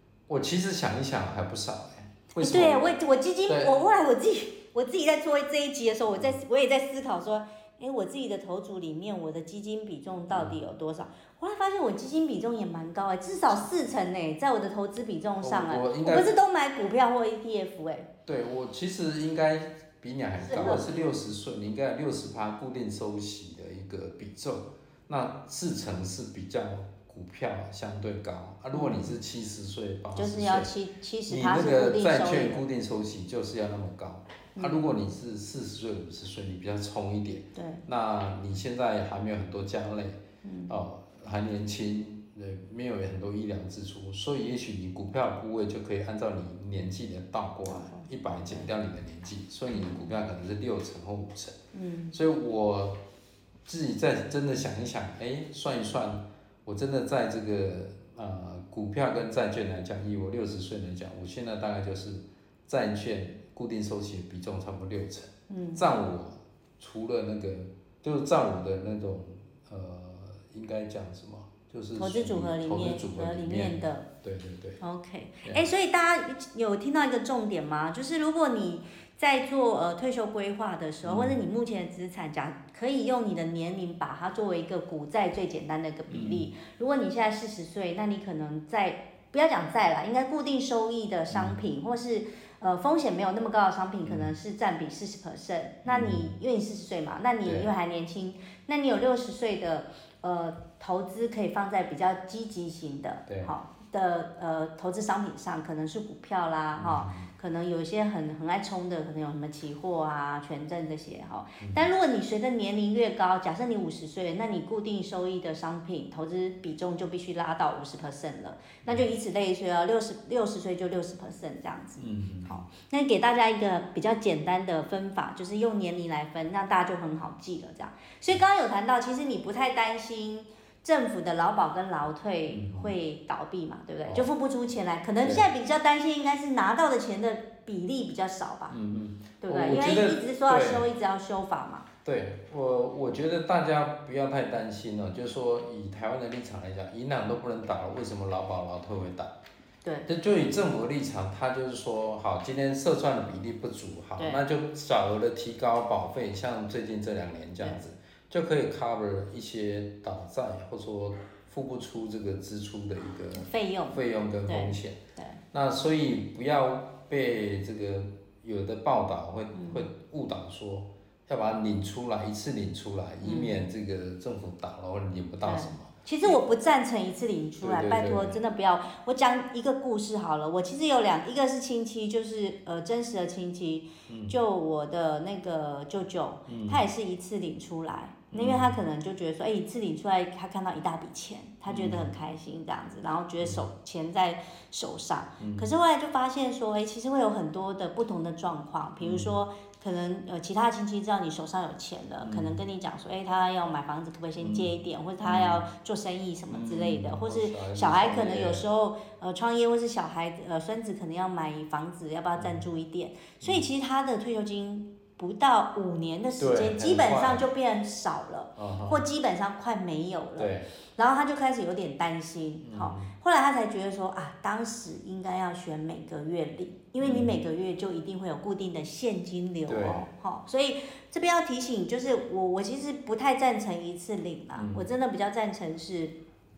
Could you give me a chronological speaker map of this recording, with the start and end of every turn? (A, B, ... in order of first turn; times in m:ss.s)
0:00.3-0:02.9 A
0:02.4-0:18.1 B
0:03.5-0:03.7 A
0:10.3-0:10.6 A
0:15.4-0:16.3 A
0:18.3-0:30.7 A
0:20.4-0:21.1 B
0:28.7-0:29.2 B
0:30.2-0:32.6 B
0:31.3-0:51.6 A
0:34.6-0:35.0 B
0:37.6-0:37.8 B
0:40.4-0:40.8 B
0:47.7-0:48.7 B
0:51.7-0:52.2 B
0:52.1-0:53.0 A
0:53.7-1:14.8 A
1:05.5-1:05.9 B
1:12.0-1:14.1 B
1:14.8-2:18.8 B
1:21.0-1:21.4 A
1:26.1-1:26.5 A
1:31.3-1:31.6 A
1:34.0-1:34.3 A
1:35.8-1:36.3 A
1:37.4-1:37.7 A
1:43.3-1:43.5 A
1:46.8-1:47.3 A
1:51.6-1:51.9 A
2:02.0-2:02.6 A
2:12.5-2:13.0 A
2:14.0-2:14.3 A
2:15.2-2:15.5 A
2:18.7-2:20.9 A
2:19.4-2:21.9 B
2:22.0-2:29.4 A
2:29.8-2:30.1 B
2:30.1-2:45.0 A
2:43.3-2:45.4 B
2:45.5-2:56.4 A
2:49.5-2:49.9 B
2:53.2-2:53.6 B
2:55.4-3:56.2 B
2:57.6-2:58.4 A
3:04.1-3:04.4 A
3:06.5-3:06.8 A
3:08.3-3:08.8 A
3:11.7-3:12.1 A
3:13.4-3:13.7 A
3:15.4-3:15.7 A
3:19.0-3:19.4 A
3:22.2-3:22.6 A
3:24.4-3:25.6 A
3:26.5-3:28.6 A
3:32.4-3:32.6 A
3:36.4-3:37.4 A
3:38.6-3:39.0 A
3:40.4-3:40.7 A
3:42.6-3:43.1 A
3:47.0-3:47.4 A
3:49.7-3:50.1 A
3:54.5-3:54.9 A